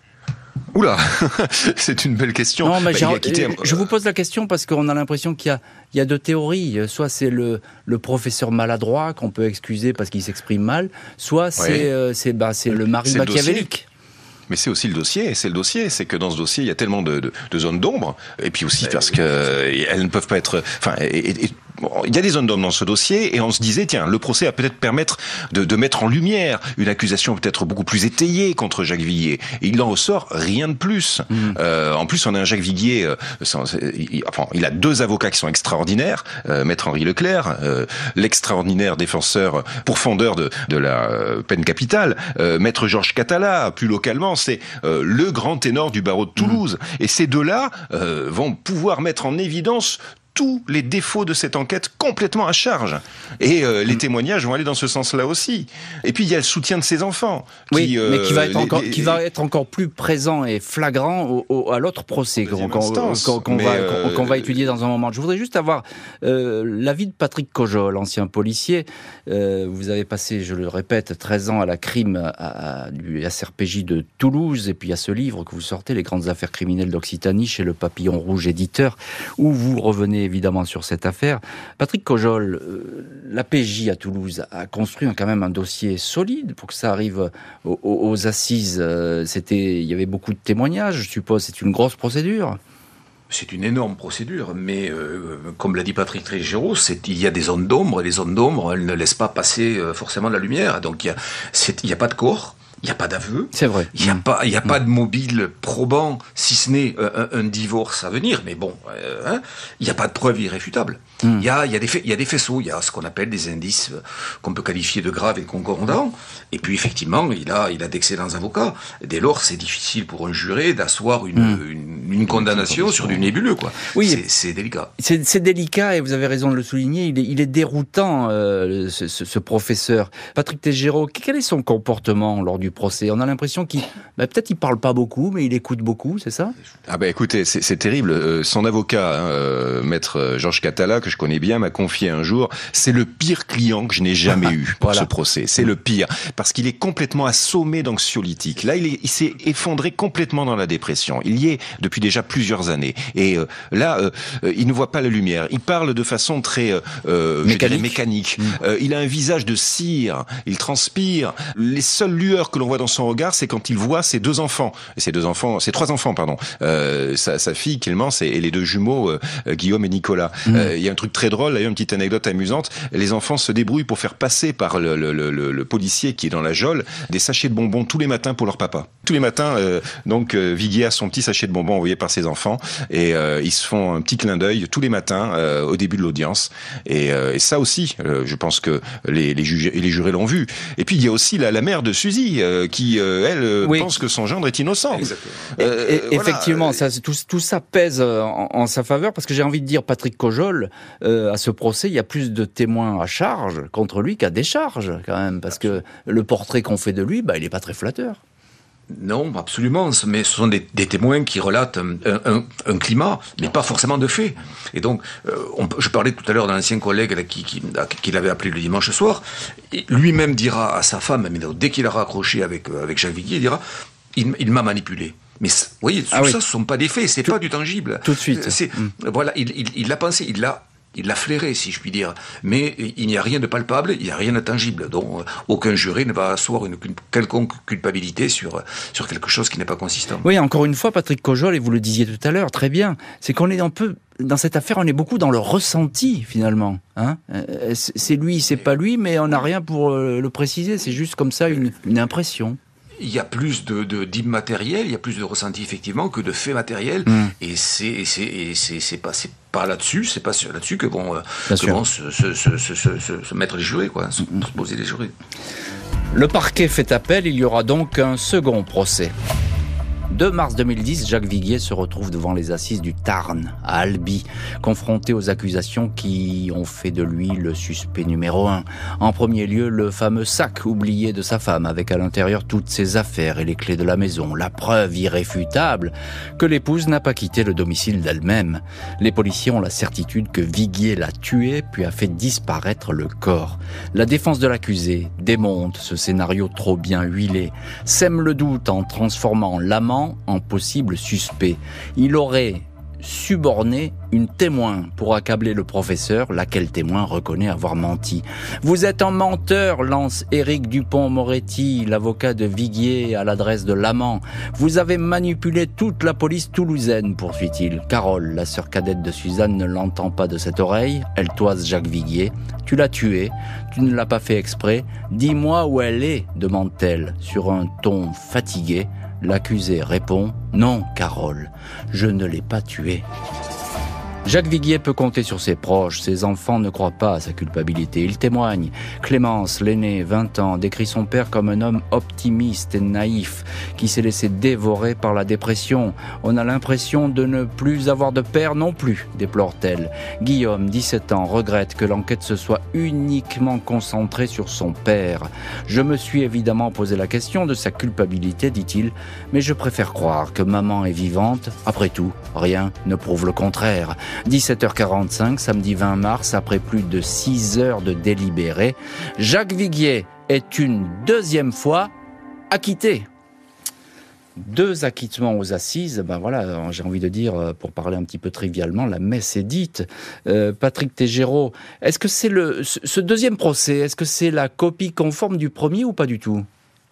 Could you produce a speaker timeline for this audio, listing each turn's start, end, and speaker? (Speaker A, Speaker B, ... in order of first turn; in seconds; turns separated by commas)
Speaker A: 0.7-3.9, Speaker B: 2.6-13.9, Speaker A: 11.6-11.9, Speaker A: 13.1-13.7, Speaker A: 14.5-59.2, Speaker B: 57.7-92.6, Speaker A: 62.5-64.5, Speaker C: 93.3-124.9, Speaker B: 103.5-104.2, Speaker A: 122.3-123.3, Speaker B: 124.0-124.2, Speaker B: 125.0-136.6, Speaker A: 136.9-196.8, Speaker B: 144.8-145.1, Speaker B: 157.4-158.5, Speaker B: 193.6-193.9, Speaker C: 195.0-195.4, Speaker B: 195.6-208.2, Speaker C: 208.9-223.6, Speaker C: 224.1-240.2, Speaker B: 228.0-228.9, Speaker B: 240.2-252.6, Speaker C: 253.0-265.1, Speaker B: 257.1-257.3, Speaker B: 261.5-261.8, Speaker B: 266.1-269.1, Speaker B: 270.1-333.1, Speaker B: 334.2-371.9, Speaker B: 372.5-373.1, Speaker B: 374.4-386.5